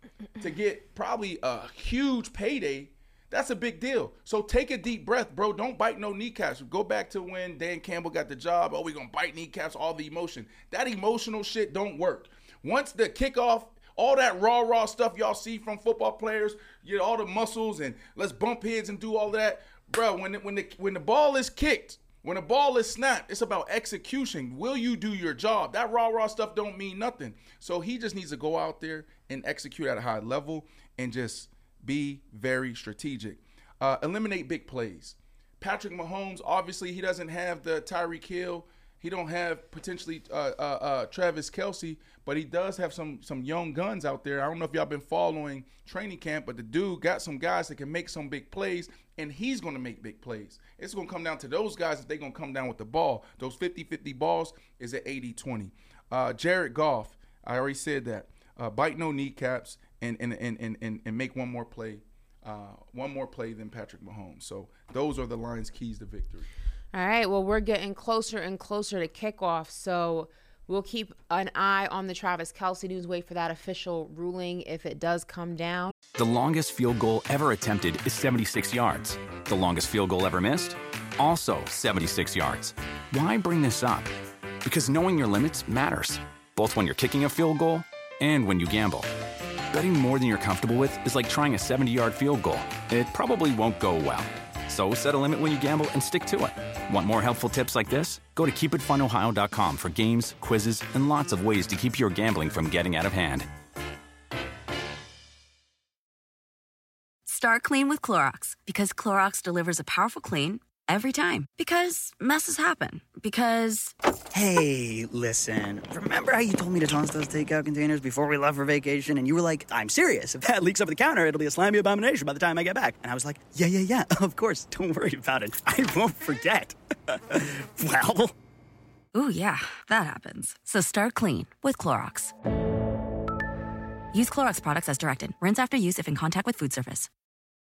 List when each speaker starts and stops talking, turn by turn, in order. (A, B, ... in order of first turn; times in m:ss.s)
0:00.4-1:06.5 A
1:06.9-1:15.9 B
1:16.2-1:24.1 C
1:24.6-1:29.1 C
1:29.7-1:43.5 C
1:47.3-1:54.0 D
1:54.3-2:08.3 E
2:09.1-2:12.3 D
2:14.1-2:17.1 D